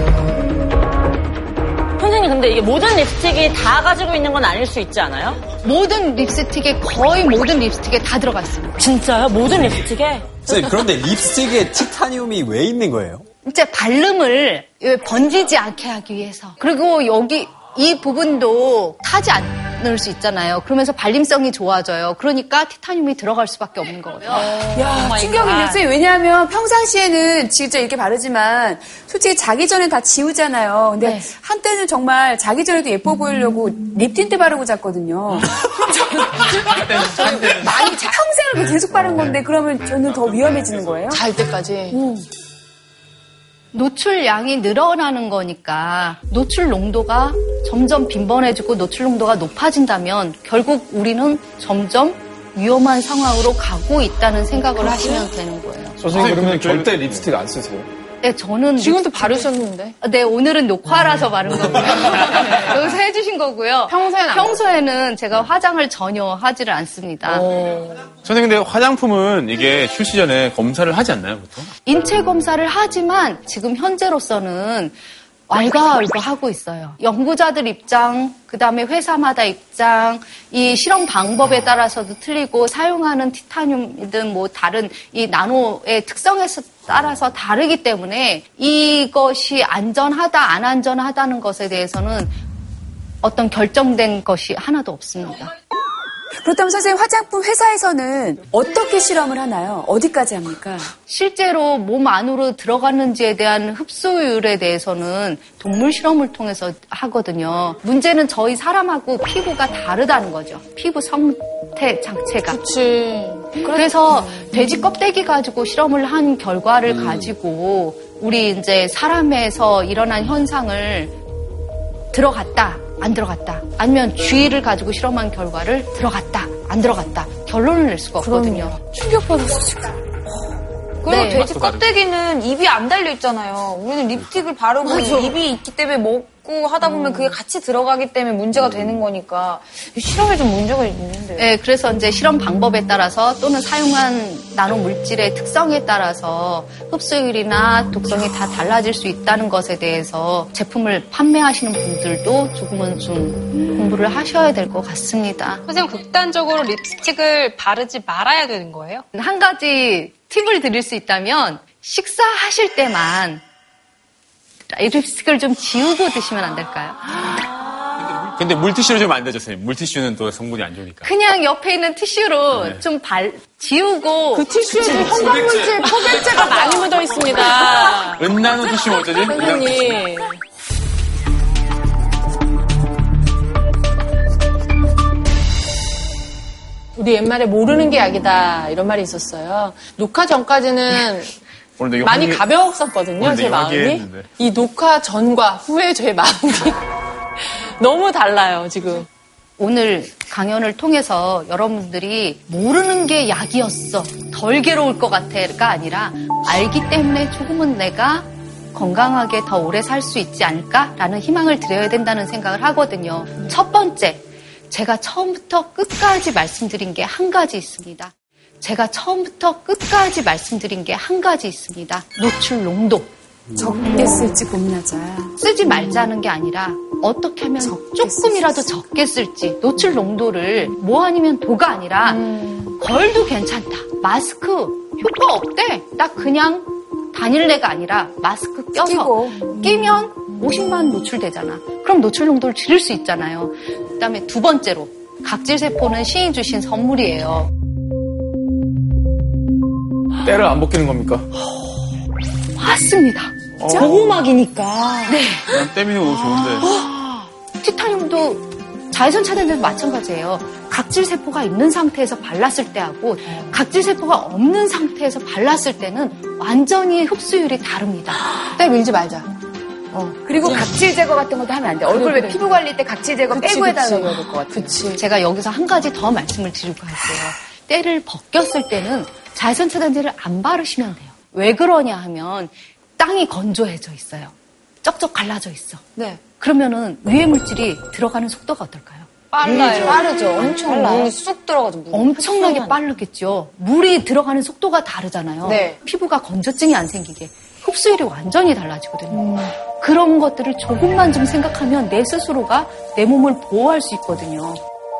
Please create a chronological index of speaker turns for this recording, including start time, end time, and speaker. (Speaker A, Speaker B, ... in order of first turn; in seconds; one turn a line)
Speaker A: 2.0-5.4
Speaker B: 5.6-8.8
Speaker A: 8.8-10.4
Speaker C: 10.4-13.2
Speaker B: 13.4-24.5
Speaker D: 24.5-41.2
Speaker E: 24.8-25.8
Speaker F: 36.0-38.2
Speaker F: 41.1-42.0
Speaker D: 41.9-42.2
Speaker B: 43.7-56.0
Speaker F: 54.8-55.3
Speaker G: 56.0-57.9
Speaker H: 56.1-57.2
Speaker B: 58.2-67.5
Speaker F: 58.8-60.0
Speaker F: 63.9-64.6
Speaker F: 67.3-68.0
Speaker H: 68.2-71.7
Speaker B: 71.8-75.0
Speaker B: 75.5-92.3
Speaker B: 93.2-95.5
Speaker D: 96.3-100.9
Speaker B: 101.1-112.6
Speaker F: 112.5-114.5
Speaker B: 113.6-121.1
Speaker C: 116.9-117.2
Speaker B: 122.1-128.8
Speaker F: 128.4-129.9
Speaker I: 131.0-141.5
Speaker B: 131.1-131.5
Speaker H: 131.1-131.9
Speaker F: 134.8-135.3
Speaker B: 141.4-155.6
Speaker E: 155.7-159.0
Speaker B: 159.1-163.4
Speaker B: 164.7-167.3
Speaker H: 168.2-171.1
Speaker B: 171.0-175.4
Speaker H: 172.5-172.8
Speaker F: 174.3-178.2
Speaker H: 175.3-176.5
Speaker H: 178.1-180.0
Speaker F: 179.1-180.3
Speaker F: 186.9-191.3
Speaker H: 191.8-192.5
Speaker F: 192.0-196.8
Speaker H: 193.2-194.3
Speaker F: 197.5-199.1
Speaker B: 199.6-223.1
Speaker D: 223.6-226.0
Speaker B: 224.0-224.3
Speaker B: 225.4-247.5
Speaker D: 227.6-228.8
Speaker D: 238.7-239.6
Speaker G: 250.2-251.2
Speaker B: 252.6-253.5
Speaker H: 253.6-254.0
Speaker A: 253.8-255.2
Speaker B: 255.1-255.6
Speaker H: 255.5-256.7
Speaker B: 257.6-268.2
Speaker F: 268.4-269.3
Speaker F: 269.9-270.6
Speaker D: 270.2-274.8
Speaker F: 271.9-272.6
Speaker F: 273.3-275.0
Speaker B: 274.9-289.2
Speaker I: 285.9-286.2
Speaker A: 289.4-291.1
Speaker I: 289.4-292.3
Speaker E: 289.6-289.9
Speaker B: 291.9-304.6
Speaker A: 292.2-292.8
Speaker I: 295.4-295.8